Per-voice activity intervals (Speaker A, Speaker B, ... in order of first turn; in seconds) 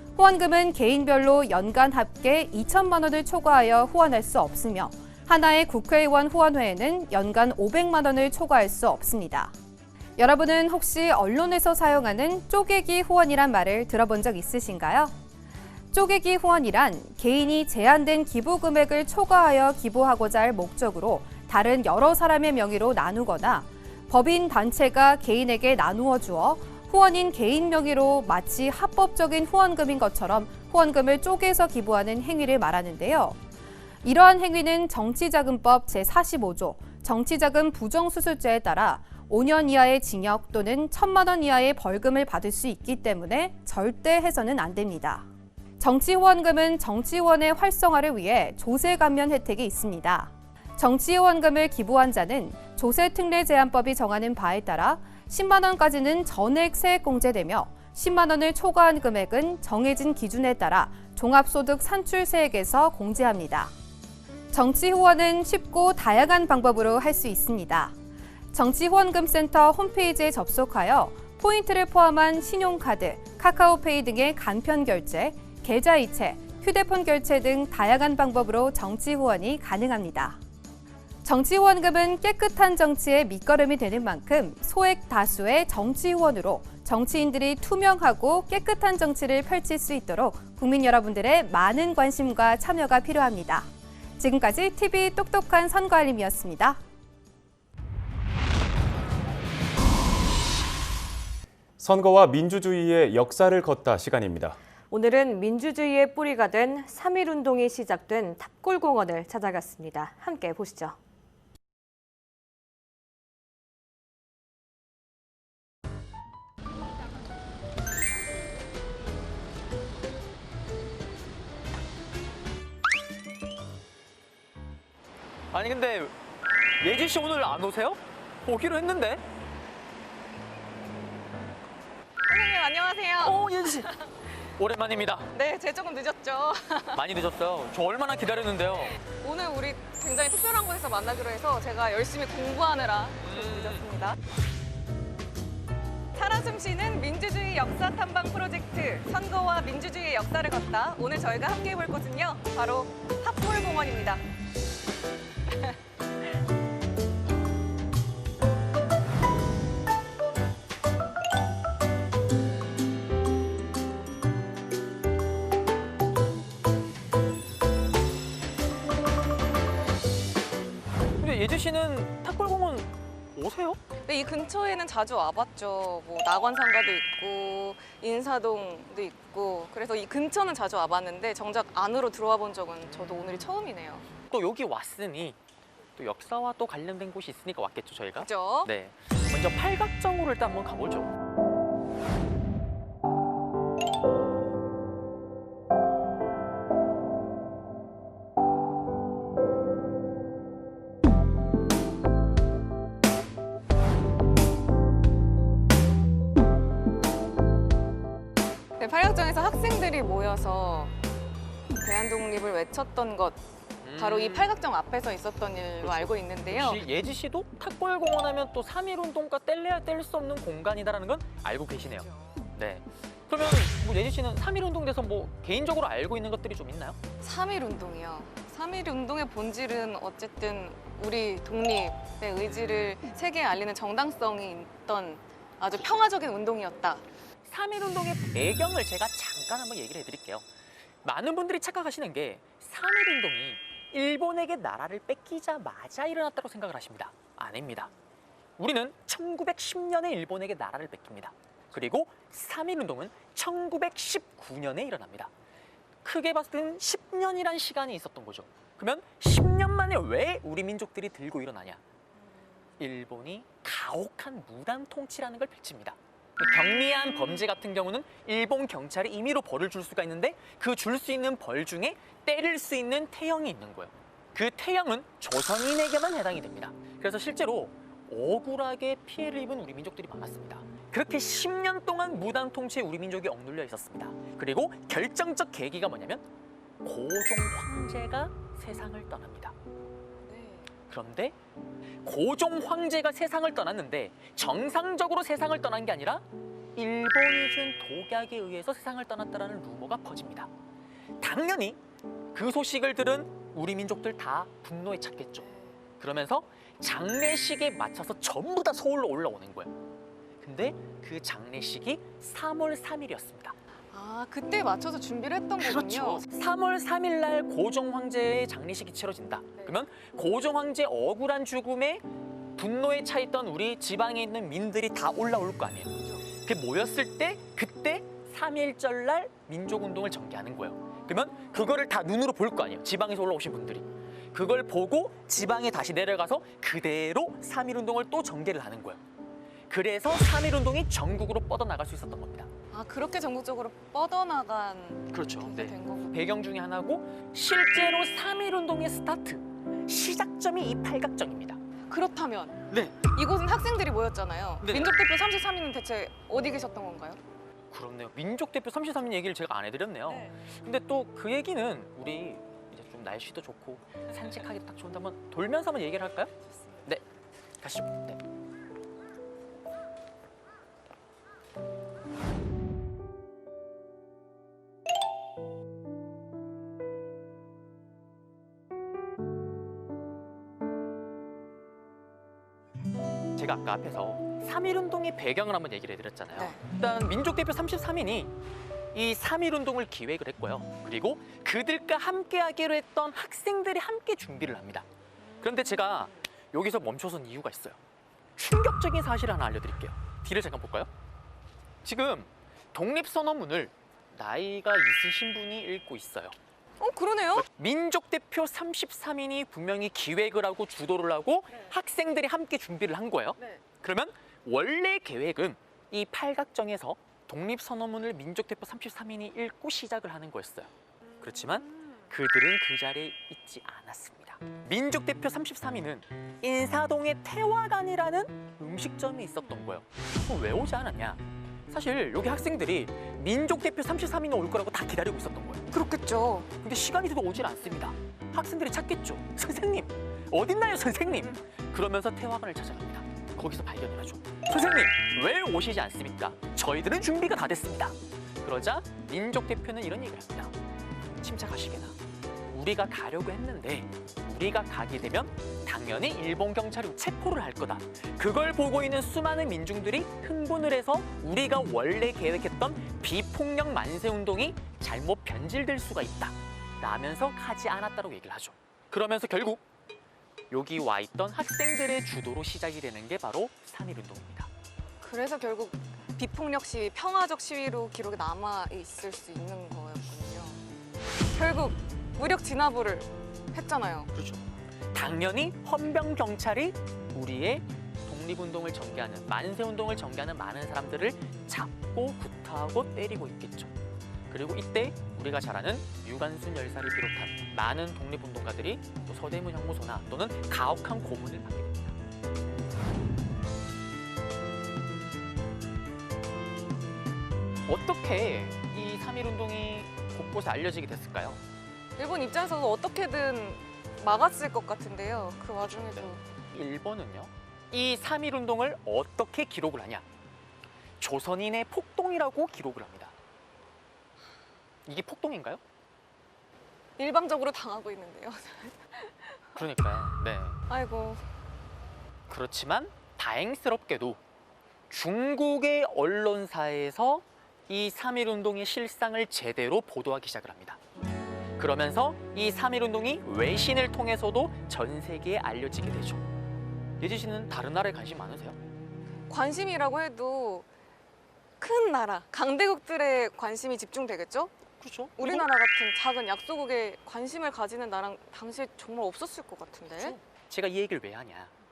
Speaker A: 0.2-9.5, 10.2-15.1, 15.9-33.4, 34.0-45.3, 45.8-63.7, 64.5-67.9, 68.5-80.4, 81.2-96.8
Speaker B: 101.8-104.6
Speaker C: 104.9-111.0
Speaker D: 125.5-126.1, 126.8-129.2, 133.2-133.9, 134.6-135.3, 136.9-139.0, 143.2-143.8, 171.2-173.8, 184.3-185.4, 186.0-191.1, 213.8-214.5, 215.8-227.0, 237.5-240.4, 241.0-247.9, 248.6-255.3, 256.0-261.8, 262.8-286.2, 286.8-289.5, 290.9-291.4, 292.0-300.5, 301.2-301.8, 302.3-309.7, 310.4-313.6, 315.6-322.1, 322.6-339.0, 339.7-342.5, 345.1-351.6, 352.7-353.1, 354.6-355.0, 357.7-366.3, 367.6-368.2, 383.4-388.3, 388.9-394.9, 395.4-397.8, 398.4-400.9, 401.9-406.4, 407.4-435.6, 436.6-450.5, 451.2-452.0, 452.5-469.6, 470.5-474.5, 484.1-493.7, 494.3-502.0, 507.7-511.4, 515.9-520.0, 521.0-523.1, 524.9-525.6, 529.5-530.6, 532.3-534.2, 534.9-540.8, 541.6-546.3, 547.0-548.6, 554.8-555.5, 560.0-561.5
Speaker E: 132.3-134.0, 135.3-137.0, 139.0-144.2, 146.2-154.2, 174.1-184.1, 188.2-188.7, 208.8-210.9, 211.8-213.4, 213.9-216.9, 227.2-237.1, 290.2-290.7, 305.4-305.7, 313.9-316.2, 342.7-346.1, 351.9-357.2, 386.4-386.6, 406.8-407.5, 413.4-413.6, 435.7-436.5, 475.0-480.6, 481.3-484.1, 512.0-516.2, 527.0-529.6, 530.7-531.2, 549.3-550.7, 551.6-554.6, 555.2-560.2